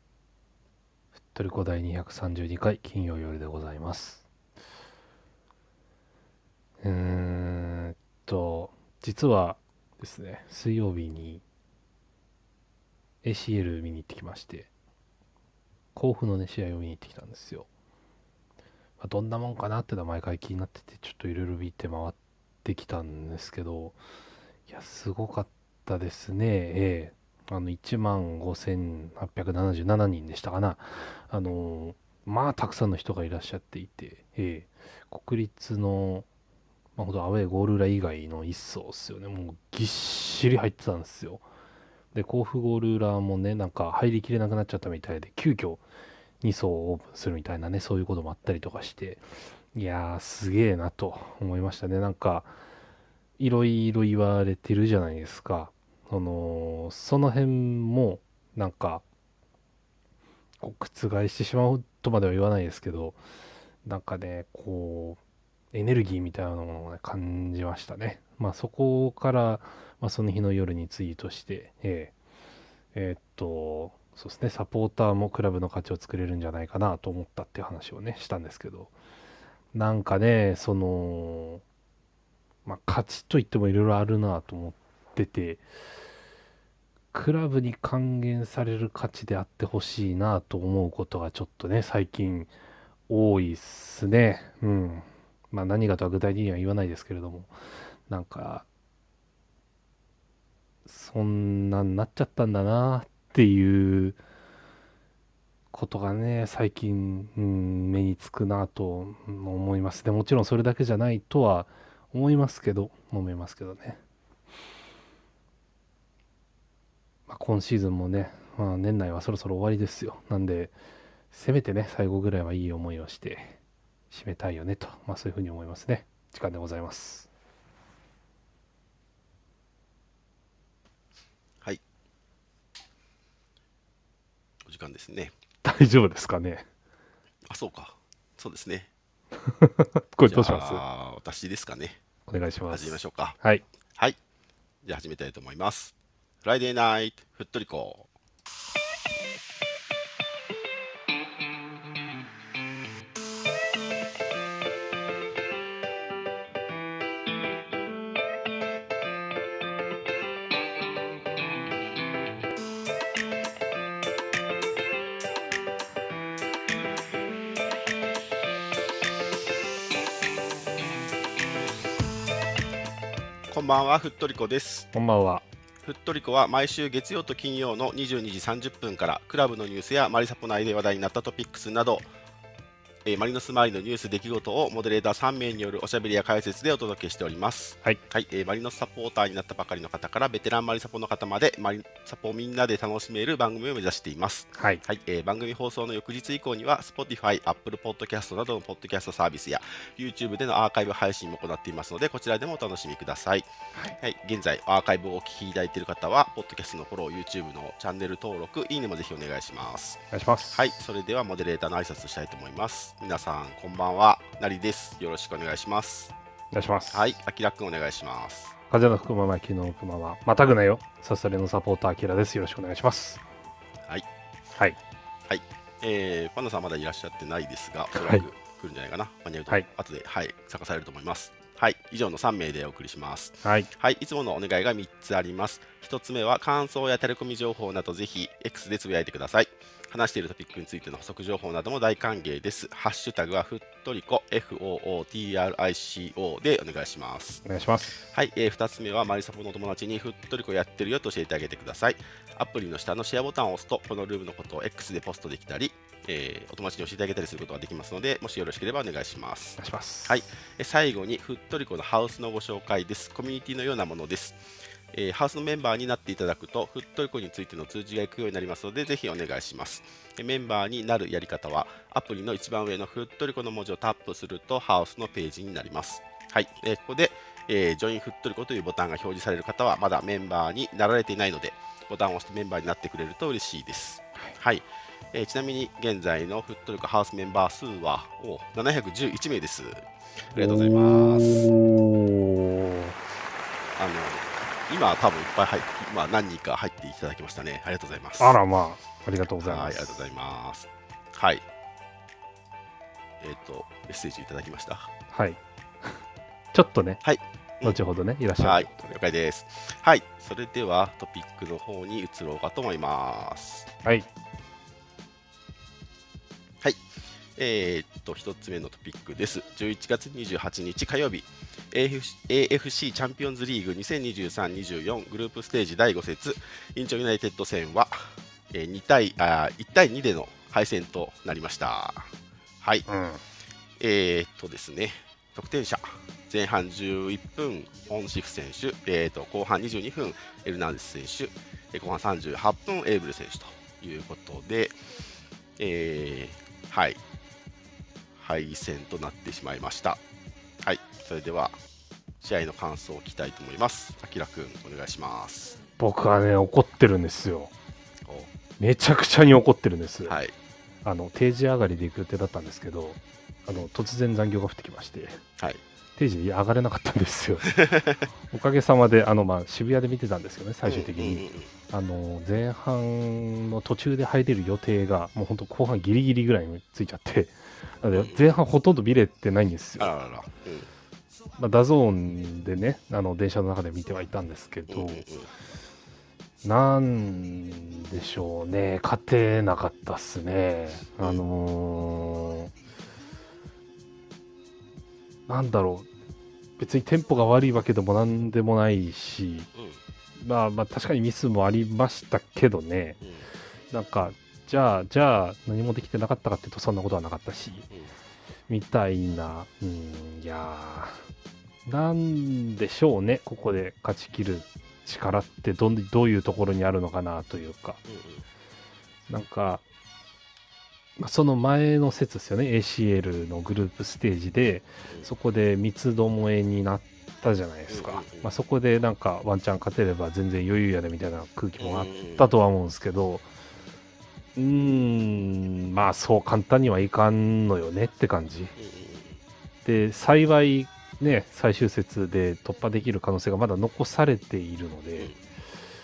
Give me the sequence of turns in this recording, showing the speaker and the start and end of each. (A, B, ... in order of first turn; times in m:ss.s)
0:01.2-0:04.2 A
0:06.8-0:11.4 A
0:13.2-0:14.7 A
0:16.0-0:17.7 A
0:19.0-0:24.0 A
0:24.7-0:36.3 A
0:37.0-0:41.4 A
0:42.1-0:45.8 A
0:46.4-0:52.5 A
0:53.4-0:59.0 A
1:00.6-1:03.2 A
1:03.8-1:05.2 A
1:05.7-1:12.1 A
1:12.9-1:18.9 A
1:19.7-1:21.6 A
1:22.7-1:25.6 A
1:27.1-1:32.5 A
1:33.1-1:37.5 A
1:38.1-1:38.7 A
1:40.9-1:44.2 A
1:45.7-1:54.0 A
1:57.3-2:00.7 A
2:01.3-2:03.6 A
2:04.1-2:07.3 A
2:14.6-2:15.3 B
2:15.6-2:16.7 A
2:17.5-2:18.9 B
2:19.4-2:20.8 A
2:20.3-2:22.0 B
2:22.3-2:23.6 A
2:22.7-2:23.4 B
2:24.8-2:28.1 B
2:53.5-2:54.9 B
2:54.9-2:55.4 A
2:55.8-3:02.1 B
3:03.0-3:23.5 B
3:14.6-3:14.8 A
3:24.0-3:30.0 B
3:30.1-3:30.6 A
3:30.5-3:36.1 B
3:36.5-3:37.2 A
3:36.9-3:38.5 B
3:38.7-3:43.2 A
3:45.3-4:07.4 B
3:48.0-3:48.2 A
3:53.4-3:53.7 A
4:07.4-4:08.0 A
4:08.1-4:51.5 B
4:19.6-4:20.2 A
4:50.4-4:53.0 A
4:53.8-4:58.4 B
4:58.2-5:00.0 A
4:59.4-5:01.4 B
5:03.2-5:04.9 B
5:05.1-5:06.0 A
5:06.5-5:07.0 A
5:07.0-5:07.8 B
5:07.6-5:08.9 A
5:08.4-5:13.7 B
5:17.4-5:32.9 B
5:32.9-5:33.2 A
5:33.8-5:44.8 B
5:45.6-5:47.0 B
5:48.2-5:50.0 B
5:50.6-5:51.6 B
5:52.2-5:55.6 B
5:55.8-5:57.5 A
5:58.0-5:58.3 B
5:58.6-6:00.2 A
6:00.0-6:00.3 B
6:00.8-6:05.2 A
6:06.0-6:07.5 A
6:07.6-6:08.1 B
6:08.3-6:20.0 A
6:10.6-6:11.5 B
6:17.9-6:18.4 B
6:19.8-6:20.7 B
6:21.4-6:25.0 A
6:24.7-6:25.3 B
6:26.4-6:32.5 A
6:35.3-6:35.9 A
6:36.6-6:39.5 A
6:39.5-6:39.8 B
6:40.2-6:43.0 A
6:43.0-6:43.3 B
6:43.7-6:47.7 A
6:48.5-6:51.0 A
6:51.7-6:57.8 A
6:57.9-6:58.2 B
6:59.1-6:59.6 A
7:01.0-7:13.3 A
7:07.7-7:08.3 B
7:11.6-7:12.3 B
7:14.4-7:18.5 A
7:18.6-7:19.2 B
7:19.6-7:25.1 A